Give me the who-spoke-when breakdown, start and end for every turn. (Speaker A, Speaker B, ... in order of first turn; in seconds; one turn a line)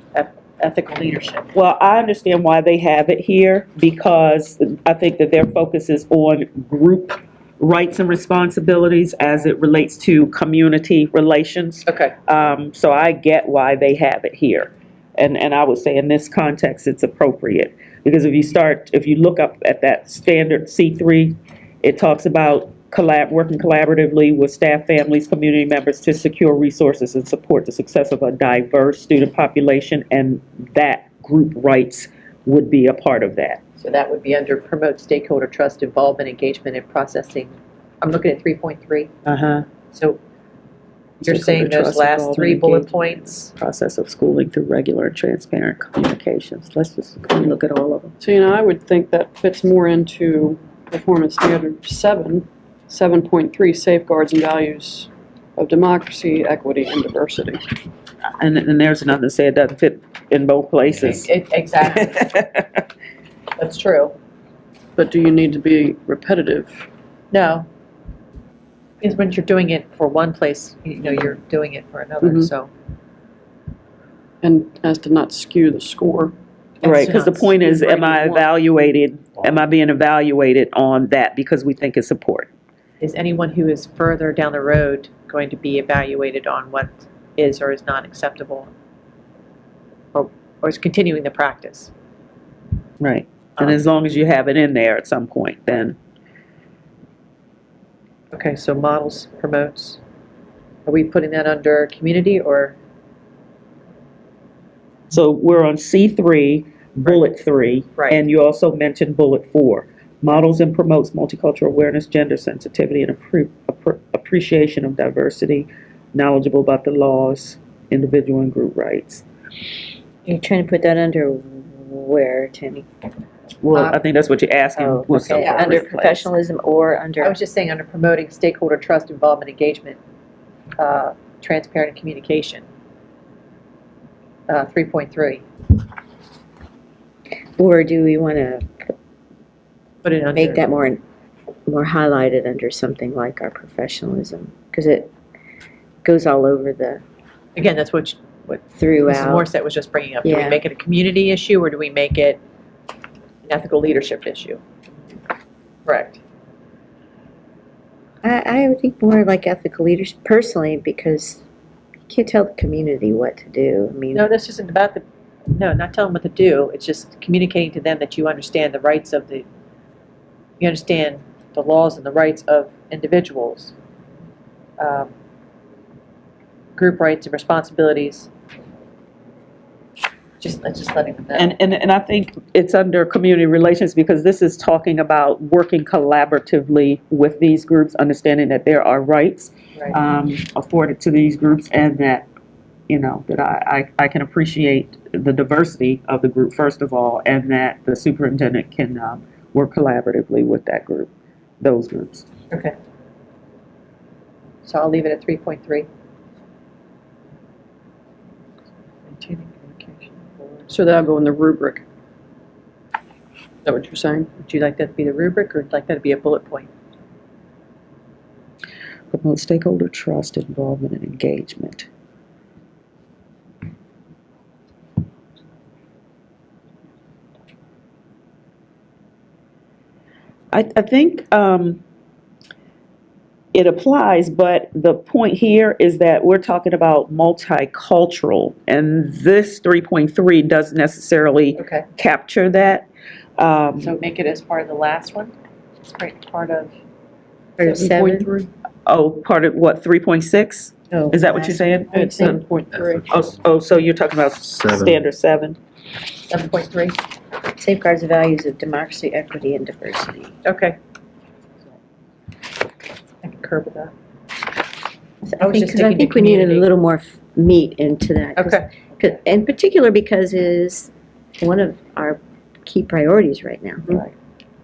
Speaker A: 0.1-1.5
Speaker B: 1.5-33.6
Speaker A: 11.9-12.1
Speaker A: 33.8-39.1
Speaker B: 39.2-39.7
Speaker A: 39.9-40.2
Speaker B: 41.2-48.1
Speaker A: 41.2-43.5
Speaker C: 48.2-57.6
Speaker B: 58.4-61.3
Speaker A: 61.1-62.4
Speaker B: 61.9-62.8
Speaker A: 63.6-64.2
Speaker C: 65.0-66.9
Speaker A: 67.3-67.7
Speaker A: 69.0-72.7
Speaker C: 72.2-72.5
Speaker C: 74.4-76.3
Speaker A: 76.8-77.6
Speaker B: 76.8-82.5
Speaker C: 77.6-78.5
Speaker A: 83.0-88.7
Speaker A: 90.1-91.9
Speaker B: 93.0-96.0
Speaker A: 98.3-100.0
Speaker A: 100.8-102.8
Speaker B: 105.1-119.2
Speaker D: 120.2-122.9
Speaker B: 123.6-126.3
Speaker D: 124.8-127.4
Speaker A: 125.3-125.8
Speaker A: 127.2-130.0
Speaker A: 130.8-132.6
Speaker A: 134.5-135.4
Speaker D: 137.6-138.9
Speaker A: 140.0-140.6
Speaker D: 140.3-141.0
Speaker D: 141.7-145.1
Speaker D: 146.0-147.0
Speaker A: 147.6-152.4
Speaker D: 148.8-149.5
Speaker D: 150.2-150.6
Speaker A: 153.4-154.6
Speaker A: 155.8-156.2
Speaker D: 158.2-161.4
Speaker D: 162.1-164.2
Speaker A: 164.1-169.4
Speaker A: 170.6-173.7
Speaker A: 174.8-175.1
Speaker A: 176.8-178.3
Speaker A: 180.4-181.5
Speaker B: 181.3-192.3
Speaker B: 192.9-201.1
Speaker B: 201.6-202.3
Speaker A: 204.6-205.9
Speaker A: 209.1-210.8
Speaker C: 210.7-211.8
Speaker C: 213.6-214.3
Speaker A: 214.4-216.7
Speaker B: 219.1-221.9
Speaker B: 230.5-231.8
Speaker B: 233.5-242.9
Speaker A: 241.6-241.9
Speaker B: 243.4-243.9
Speaker A: 243.8-246.7
Speaker D: 247.6-248.3
Speaker C: 247.6-248.5
Speaker B: 248.8-251.9
Speaker D: 250.9-252.4
Speaker C: 251.9-253.1
Speaker B: 253.1-255.6
Speaker A: 256.3-257.0
Speaker D: 257.5-260.3
Speaker A: 260.4-260.8
Speaker A: 263.2-263.9
Speaker D: 265.3-274.0
Speaker A: 265.4-266.7
Speaker A: 268.4-268.7